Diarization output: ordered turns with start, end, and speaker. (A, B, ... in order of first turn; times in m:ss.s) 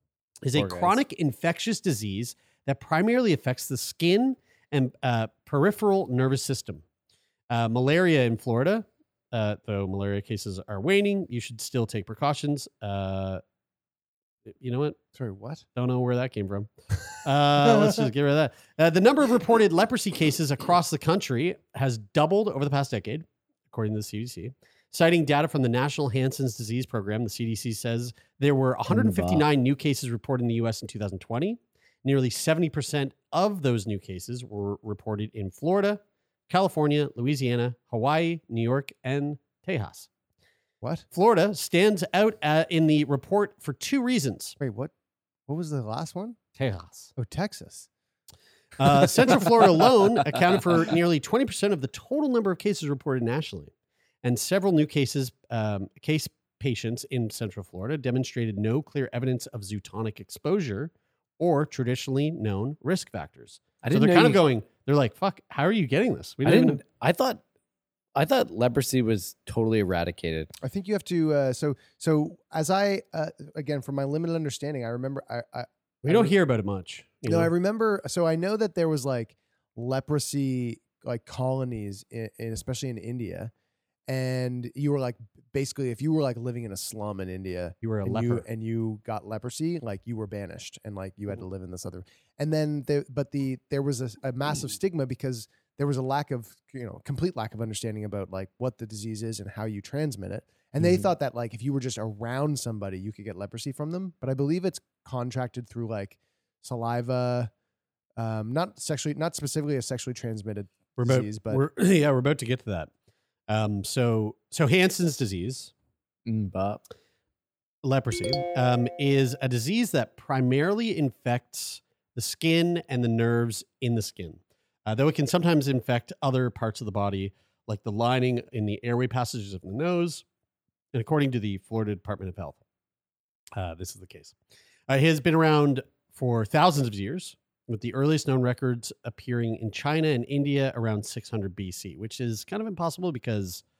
0:00.4-0:06.8 A
0:00.5-0:00.9 B
0:07.5-0:13.4 A
0:14.5-0:15.0 A
0:15.1-0:15.6 C
0:15.8-0:40.1 A
0:17.6-0:18.1 C
0:28.9-0:29.4 B
0:40.8-0:41.0 C
0:41.1-0:44.6 A
0:44.6-0:44.9 C
0:45.5-0:46.4 C
0:46.6-0:47.1 A
0:47.2-0:47.9 C
0:48.8-0:53.7 A
0:54.2-1:06.8 A
1:03.8-1:04.4 B
1:06.4-1:07.4 B
1:08.2-1:10.5 B
1:10.6-1:16.3 C
1:16.0-1:17.5 A
1:17.2-1:23.5 C
1:24.1-1:47.5 C
1:27.8-1:28.4 A
1:48.2-1:51.6 C
1:51.0-1:52.9 A
1:53.5-1:55.7 A
1:56.2-1:56.8 B
1:57.8-2:10.2 A
2:10.9-2:12.6 A
2:13.6-2:14.3 A
2:14.9-2:23.6 A